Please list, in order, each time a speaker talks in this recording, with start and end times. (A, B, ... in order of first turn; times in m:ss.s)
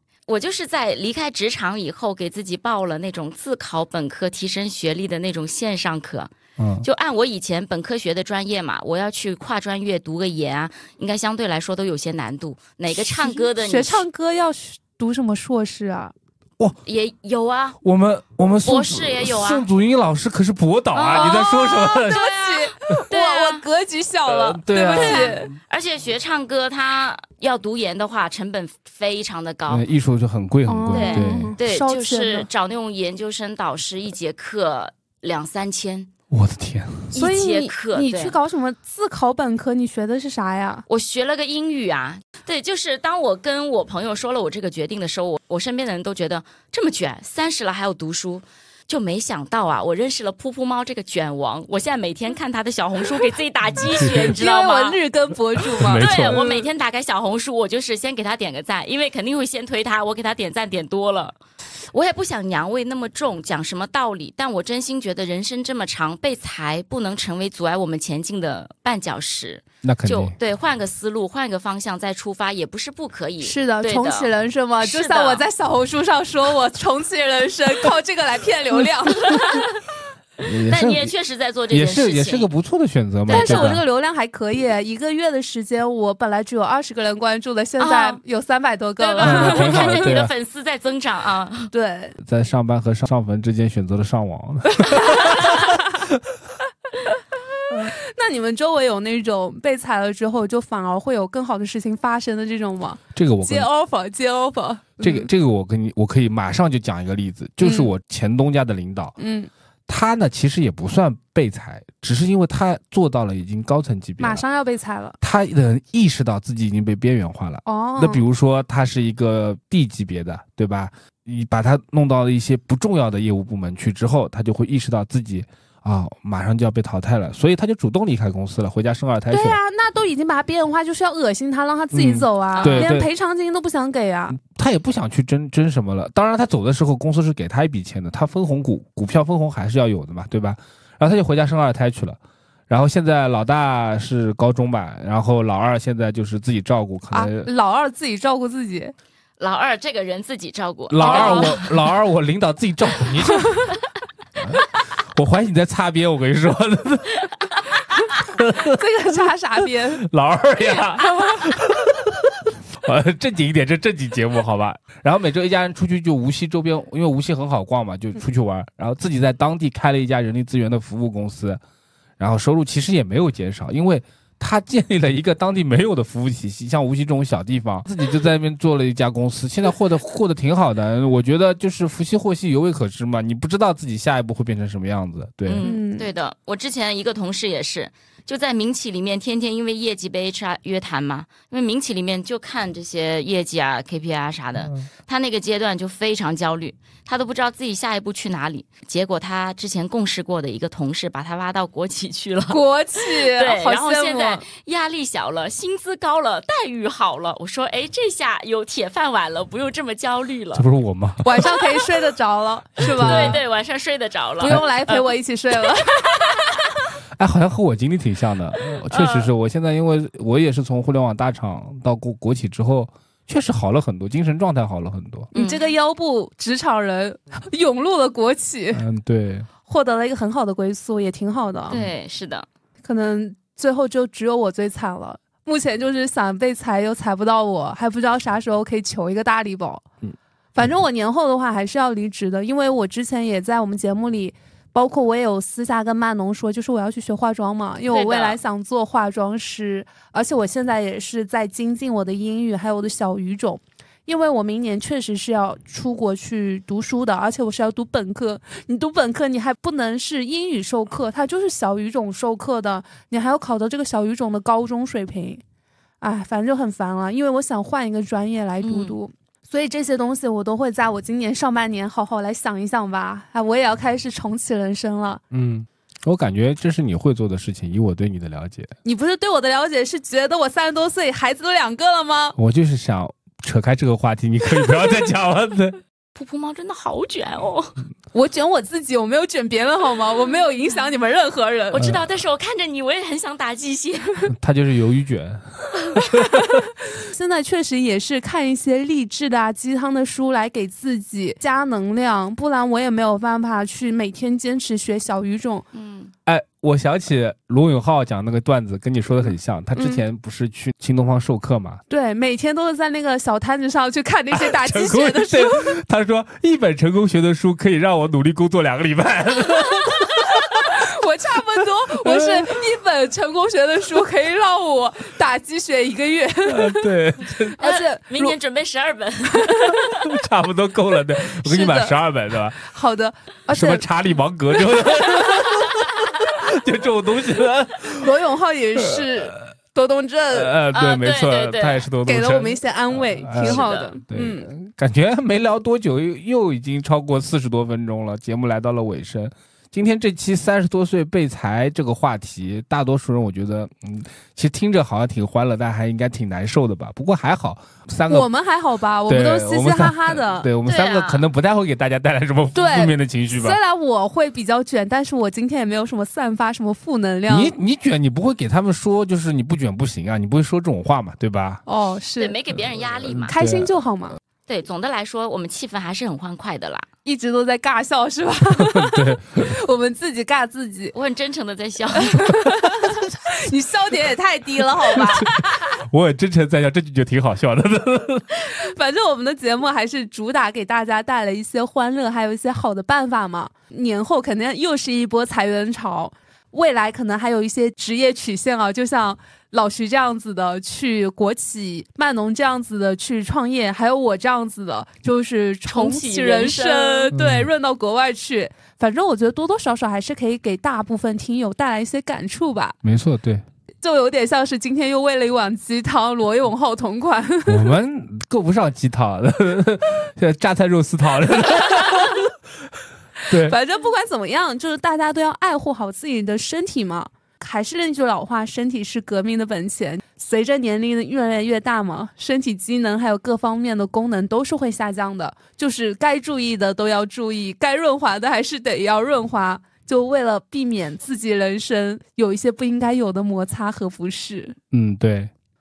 0:00.3-0:06.3 A
0:06.6-0:06.9 B
0:06.8-0:14.0 A
0:13.0-0:16.1 C
0:16.8-0:17.8 A
0:17.8-0:22.2 B
0:18.6-0:19.7 A
0:20.9-0:23.6 A
0:21.1-0:25.5 C
0:24.3-0:25.5 B
0:24.9-0:29.8 A
0:29.7-0:31.6 B
0:30.7-0:32.5 C
0:30.9-0:36.1 A
0:36.3-0:37.1 B
0:37.1-0:38.4 A
0:37.1-0:40.8 C
0:40.9-0:55.0 A
0:53.8-0:54.4 B
0:54.4-0:56.5 C
0:55.6-0:56.4 B
0:55.9-1:01.4 A
1:01.9-1:14.3 A
1:09.8-1:10.4 B
1:13.4-1:19.3 C
1:14.8-1:15.4 A
1:19.2-1:19.8 A
1:20.4-1:21.1 B
1:20.7-1:22.5 A
1:21.7-1:23.8 B
1:23.3-1:30.1 C
1:23.3-1:23.8 A
1:27.8-1:28.2 A
1:29.0-1:31.7 A
1:29.2-1:30.3 B
1:31.7-1:32.2 C
1:32.2-1:36.1 B
1:35.2-1:35.6 A
1:37.9-1:45.3 C
1:43.2-1:43.7 B
1:45.0-1:49.2 B
1:47.6-1:47.9 C
1:49.2-1:49.5 C
1:49.9-1:54.4 B
1:54.2-1:55.2 C
1:55.2-2:09.6 B
1:57.6-1:58.2 C
2:09.3-2:14.4 C
2:11.9-2:13.1 B
2:12.6-2:13.0 A
2:14.3-2:27.5 B
2:27.1-2:28.9 C
2:29.4-2:31.7 A
2:30.9-2:33.7 B
2:31.0-2:31.6 C
2:34.4-2:37.2 B
2:38.2-2:38.8 B
2:38.6-2:40.1 C
2:40.0-2:51.6 B
2:41.1-2:41.4 C
2:52.2-3:05.7 B
3:05.5-3:30.7 A
3:05.6-3:06.1 C
3:14.6-3:14.9 B
3:22.5-3:24.4 C
3:30.5-3:31.4 B
3:31.2-3:33.4 C
3:32.8-3:33.4 B
3:33.0-3:35.1 A
3:34.4-3:36.4 C
3:37.2-3:45.3 B
3:38.9-3:39.3 A
3:45.3-3:48.8 C
3:45.4-3:45.7 A
3:48.7-3:49.5 B
3:49.7-3:51.8 C
3:51.7-3:52.5 A
3:52.8-3:59.8 C
4:00.6-4:25.4 C
4:07.9-4:08.4 A
4:26.0-4:35.2 C
4:28.6-4:29.0 A
4:35.3-4:38.7 B
4:38.8-4:42.4 C
4:42.4-4:45.8 B
4:46.2-4:47.8 A
4:48.1-4:51.9 C
4:51.7-4:54.3 A
4:51.8-4:52.0 B
4:54.3-4:56.6 B
4:56.9-5:05.7 C
5:05.7-5:06.1 A
5:06.3-5:11.8 B
5:09.8-5:10.0 C
5:11.9-5:15.8 C
5:14.3-5:20.6 B
5:20.6-5:26.9 C
5:22.0-5:22.4 B
5:26.5-5:27.6 B
5:27.6-5:28.3 C
5:27.6-5:30.1 A
5:30.0-5:32.6 B
5:31.4-5:31.9 C
5:32.6-5:33.8 C
5:33.5-5:38.1 B
5:38.0-5:40.6 C
5:38.8-5:39.5 B
5:40.3-5:58.3 B
5:40.7-5:41.9 A
5:42.1-5:44.5 C
5:43.4-5:43.9 A
5:58.1-6:00.5 C
5:59.1-6:03.6 B
6:00.7-6:01.3 A
6:02.6-6:07.5 C
6:07.3-6:11.6 B
6:11.7-6:12.3 C
6:12.2-6:13.3 A
6:13.1-6:13.7 B
6:13.3-6:14.2 C
6:14.5-6:16.9 A
6:17.0-6:20.9 C
6:18.6-6:19.6 B
6:20.9-6:22.3 A
6:22.0-6:25.4 C
6:25.0-6:28.3 B
6:28.5-6:52.8 C
6:45.7-6:47.1 A
6:47.1-6:47.5 B
6:52.8-6:53.4 B
6:53.8-6:57.7 C
6:57.5-7:02.3 B
7:03.3-7:03.6 B
7:03.3-7:24.6 C
7:24.7-7:25.3 B